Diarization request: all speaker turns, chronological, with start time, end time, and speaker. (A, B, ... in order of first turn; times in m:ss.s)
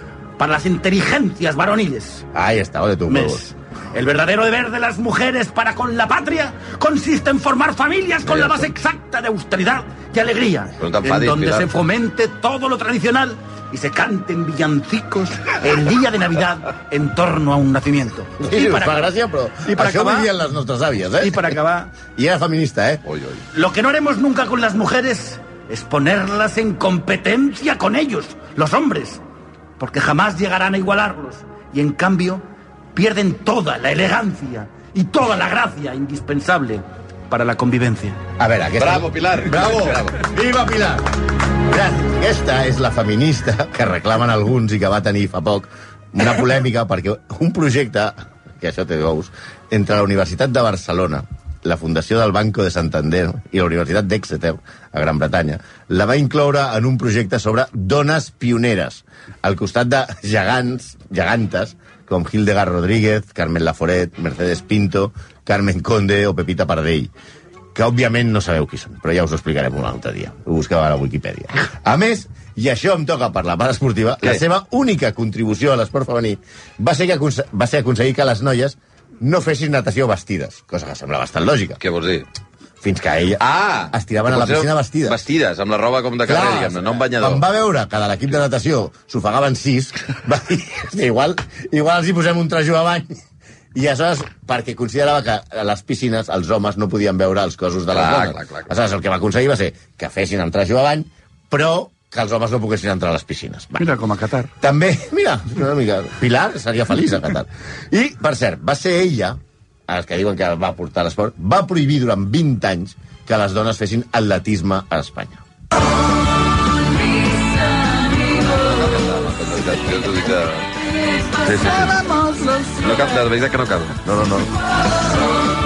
0:00.4-0:02.3 A
0:02.3-0:03.4 B
0:03.1-0:19.0 A
0:08.3-0:08.7 C
0:10.8-0:11.7 C
0:18.4-0:21.6 B
0:19.6-0:20.3 A
0:21.2-0:21.9 A
0:22.1-0:23.0 B
0:23.1-0:23.4 C
0:23.5-0:29.2 A
0:29.8-0:32.4 A
0:33.0-0:38.2 A
0:38.4-0:41.1 B
0:38.8-0:40.2 C
0:41.7-1:07.1 B
1:07.8-1:21.8 B
1:21.8-1:22.2 C
1:22.8-1:25.2 B
1:23.4-1:27.4 C
1:26.2-1:33.2 B
1:33.7-1:43.9 B
1:37.9-1:38.7 C
1:43.8-1:44.5 A
1:44.6-1:55.4 B
1:58.6-2:00.7 C
2:01.4-2:02.1 C
2:02.8-2:04.0 C
2:04.0-2:04.5 B